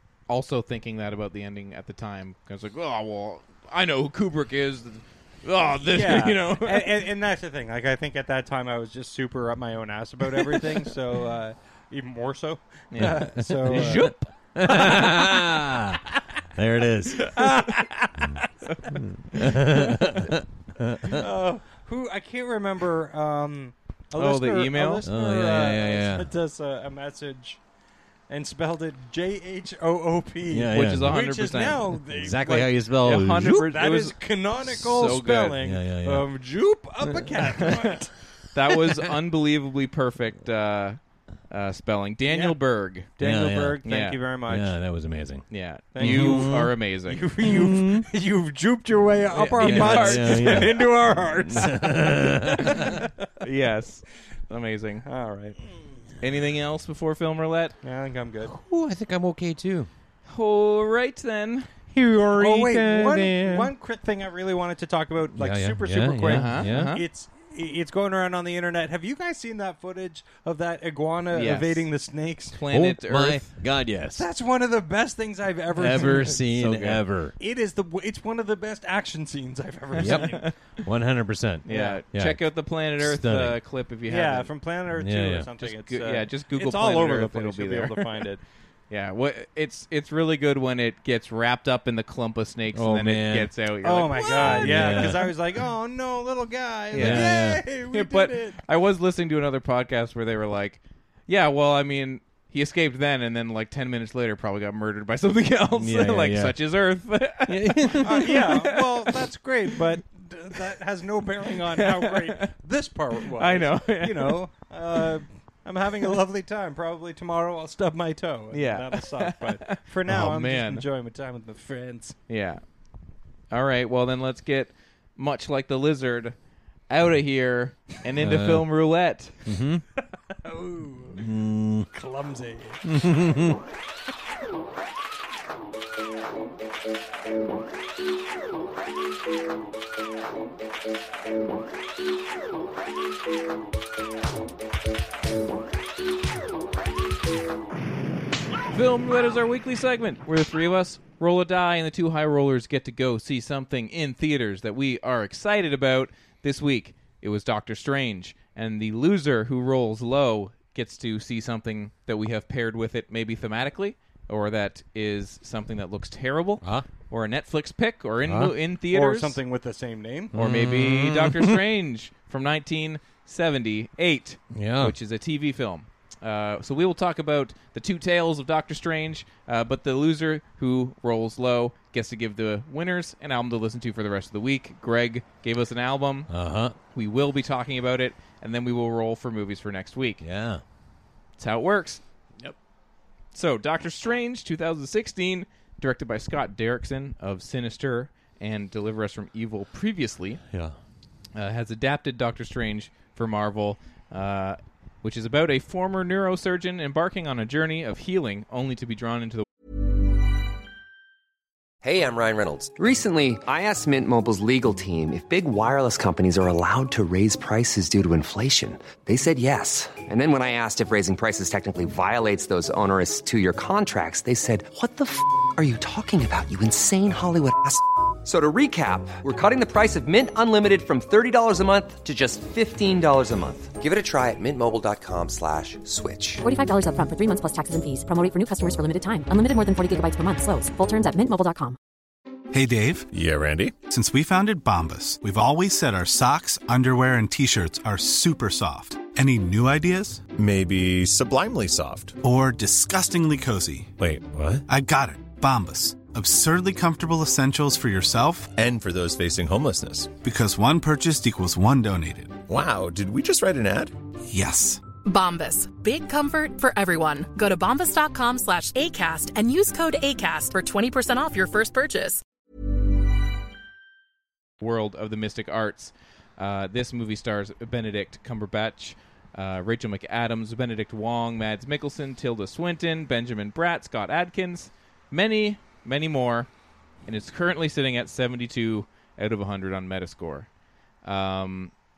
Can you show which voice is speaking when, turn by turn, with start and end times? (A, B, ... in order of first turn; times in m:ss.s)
0:00.3-0:07.0 A
0:05.9-0:14.1 B
0:12.9-0:14.2 A
0:13.0-0:17.4 C
0:14.7-0:15.3 B
0:17.2-0:17.9 A
0:17.2-0:18.5 B
0:18.7-0:19.4 A
0:18.9-0:21.2 C
0:21.1-0:27.6 B
0:24.2-0:25.0 A
0:25.0-0:26.3 C
0:28.3-0:32.9 B
0:30.5-0:31.2 C
0:30.7-0:31.8 A
0:32.1-0:33.7 C
0:33.0-0:35.6 A
0:33.4-0:38.1 B
0:35.6-0:36.3 C
0:37.6-0:37.9 A
0:38.5-0:41.0 A
0:41.5-0:43.1 A
0:42.3-0:42.6 B
0:43.1-0:44.8 B
0:43.2-0:43.8 C
0:43.8-0:44.2 A
0:44.5-0:46.8 C
0:45.5-0:47.2 A
0:45.9-0:53.3 B
0:47.4-0:48.1 C
0:49.3-0:50.8 A
0:49.6-0:53.0 C
0:53.4-0:55.0 A
0:55.0-0:55.6 B
0:56.2-0:57.8 A
0:57.8-0:58.5 B
0:58.5-0:59.9 C
1:00.3-1:01.7 A
1:01.9-1:03.7 C
1:02.3-1:12.6 B
1:05.4-1:07.0 C
1:06.3-1:07.0 A
1:11.3-1:11.9 A
1:12.5-1:13.5 A
1:12.7-1:14.3 C
1:14.2-1:16.4 B
1:15.7-1:17.4 C
1:16.0-1:17.0 A
1:17.4-1:20.5 B
1:20.0-1:23.6 C
1:20.0-1:20.5 A
1:21.7-1:24.5 A
1:21.7-1:22.0 B
1:24.1-1:28.4 B
1:24.9-1:25.5 C
1:25.6-1:28.2 A
1:28.9-1:35.3 A
1:32.7-1:33.5 C
1:33.8-1:38.6 B
1:34.4-1:35.3 C
1:36.9-1:49.8 A
1:37.0-1:37.6 C
1:45.8-1:46.6 C
1:47.5-1:48.5 C
1:48.0-2:02.2 B
1:51.5-1:52.5 A
1:53.3-1:54.4 A
1:58.5-2:00.8 A
2:00.1-2:00.4 C
2:02.3-2:02.6 A
2:03.5-2:06.4 A
2:06.9-2:09.4 A
2:08.2-2:08.7 C
2:09.4-2:09.8 C
2:10.4-2:11.3 B
2:11.2-2:11.9 C
2:11.9-2:13.5 B
2:12.8-2:13.6 C
2:28.7-2:49.4 A
2:48.2-2:48.6 C
2:48.9-2:50.3 B
2:50.3-2:51.6 C
2:50.3-3:06.3 A
2:54.5-2:55.0 C
3:06.3-3:06.8 C
3:06.9-3:10.2 A
3:10.2-3:10.6 C
3:11.4-3:12.0 A
3:13.3-3:20.4 A
3:20.5-3:20.8 C
3:21.4-3:29.4 A
3:31.8-3:56.4 D
3:56.4-4:01.8 E
4:02.5-4:03.1 F
4:03.1-4:03.8 G
4:03.8-4:10.2 F
4:10.4-4:12.2 G
4:12.2-4:14.0 F
4:14.0-4:14.6 G
4:14.7-4:18.6 F
4:18.6-4:20.1 G
4:20.2-4:22.5 F
4:22.5-4:23.9 G
4:24.3-4:24.8 F
4:25.0-4:32.2 H
4:34.6-4:46.5 A
4:47.1-4:50.5 A
4:51.0-4:51.7 A